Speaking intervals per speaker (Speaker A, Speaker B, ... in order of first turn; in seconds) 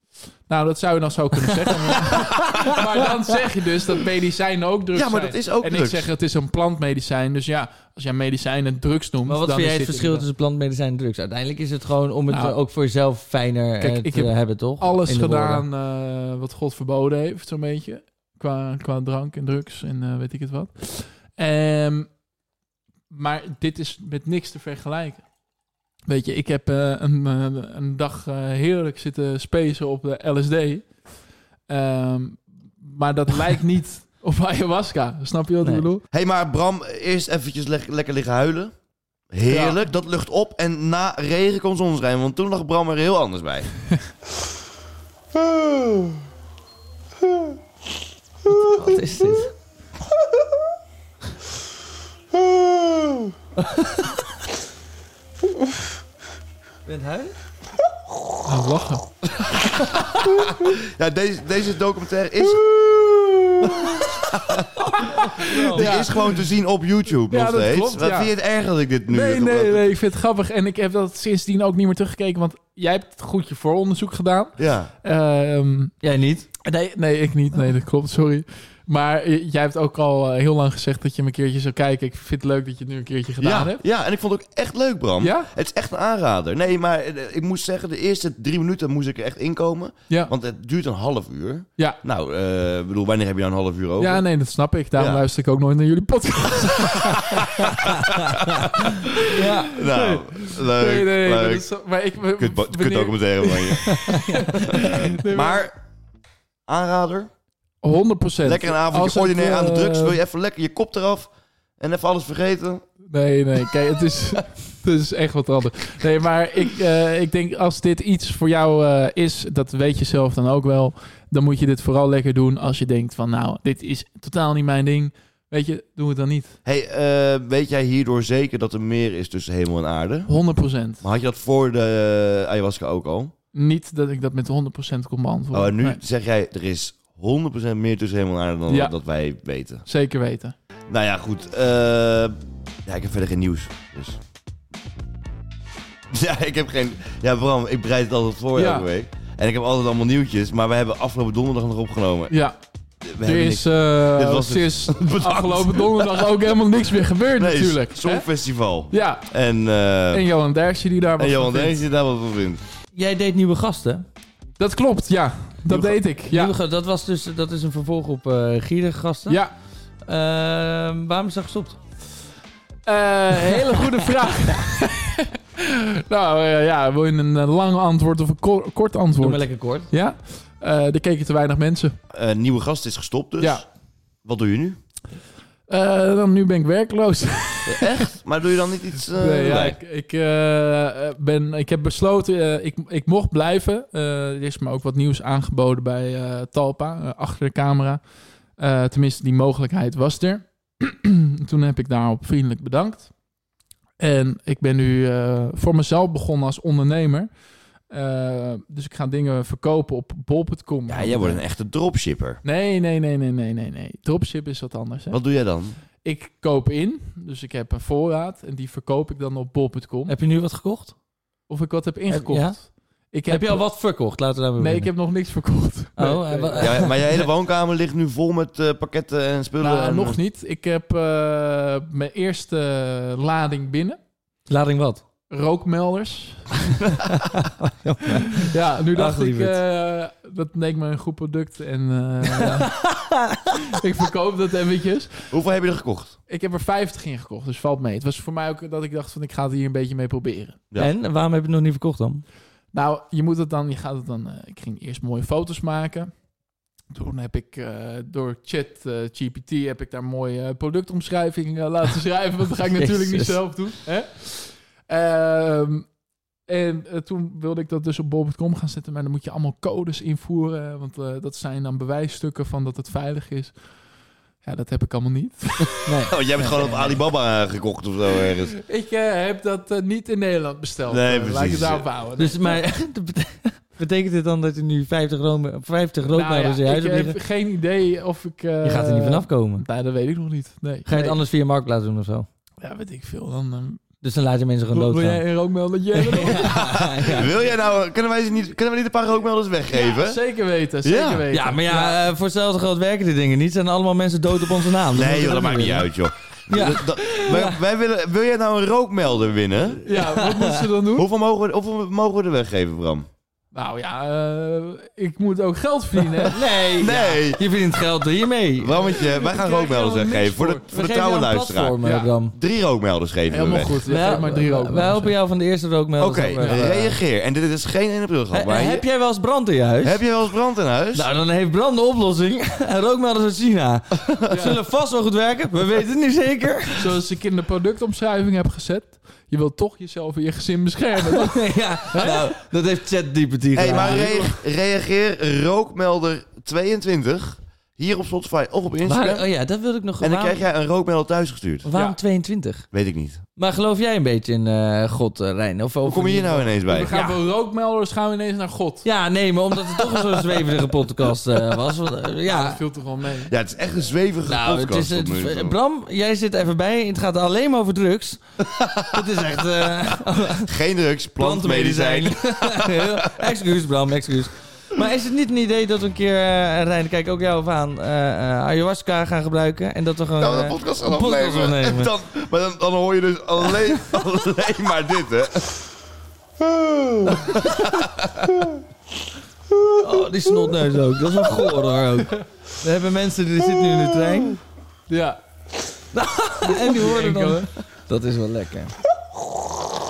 Speaker A: 0.5-10.3, 12.3-12.6, 13.8-22.2, 23.1-25.3, 26.1-31.1, 31.7-36.0, 39.5-39.8, 58.4-59.0, 65.0-66.4, 67.3-68.3, 69.1-75.9, 76.6-83.8, 85.2-85.5, 94.0-97.7, 98.9-105.7, 107.8-110.2, 113.1-126.6, 130.2-131.0, 133.5-136.0, 138.7-138.9, 139.8-140.5, 148.5-148.9, 152.3-152.6, 153.2-158.3, 158.9-159.3, 160.1-161.8, 164.6-166.5, 169.3-169.5, 172.8-182.0, 183.4-183.6, 185.7-188.1, 189.1-198.0, 198.6-203.1, 204.0-207.3, 207.9-211.4, 212.4-215.2, 216.0-220.1, 221.5-223.7, 224.6-227.0, 229.6-234.0, 235.3-236.6, 238.3-242.7, 243.7-245.3, 246.3-250.6, 252.7-256.1, 256.9-265.9, 266.4-273.6, 274.4-276.9, 278.6-282.6, 286.1-291.2, 292.6-293.8, 294.7-297.4, 299.7-302.0, 309.8-311.1, 313.5-316.4, 318.8-320.6, 321.8-322.1, 323.3-325.2, 326.4-326.7, 334.3-334.6, 336.8-342.4, 343.6-344.4, 351.7-352.0, 356.7-358.9, 362.2-363.3, 394.9-395.2, 396.4-397.5
Speaker B: 4.9-6.1, 36.1-38.7, 39.3-43.7, 59.3-62.8, 63.6-64.8, 65.7-69.9, 74.6-74.9, 83.4-94.2, 94.9-95.2, 98.1-98.7, 99.7-101.7, 102.4-105.7, 106.7-107.3, 108.4-112.8, 126.6-130.3, 131.0-133.3, 135.5-139.8, 140.9-144.2, 146.1-152.3, 153.0-156.3, 157.3-160.2, 161.2-162.6, 165.7-166.0, 182.1-183.6, 184.2-184.8, 187.7-189.8, 210.9-212.4, 215.1-215.8, 226.6-230.2, 245.3-246.2, 276.1-278.6, 280.9-281.9, 297.1-300.2, 300.8-301.2, 304.9-309.8, 310.9-313.1, 316.6-317.4, 318.6-323.9, 326.0-328.9, 329.8-331.1, 343.5-349.3, 350.0-351.7, 352.7-353.2, 355.8-356.9, 363.3-365.6, 368.4-373.3, 380.2-385.5, 387.0-388.2
Speaker C: 9.2-15.6, 48.5-49.5, 53.6-53.9, 56.8-57.4, 65.0-66.0, 76.0-76.5, 99.3-99.8, 104.1-104.5, 162.9-164.1, 166.3-169.4, 170.0-171.8, 179.2-179.9, 220.1-220.9, 222.1-222.6, 223.3-224.9, 226.0-227.2, 234.4-235.0, 237.2-239.6, 242.3-243.5, 250.8-252.2, 262.8-263.6, 275.9-276.9, 282.2-287.2, 288.6-289.6, 290.9-292.3, 294.0-295.2, 295.9-297.3, 301.3-305.9, 306.5-307.6, 309.9-310.6, 316.2-318.8, 320.7-322.3, 323.8-327.0, 328.3-330.1, 330.9-336.9, 341.1-344.1, 348.8-350.4, 351.6-352.7, 353.4-357.2, 358.8-362.6, 364.2-370.5, 371.2-381.9, 389.8-394.4, 395.9-398.8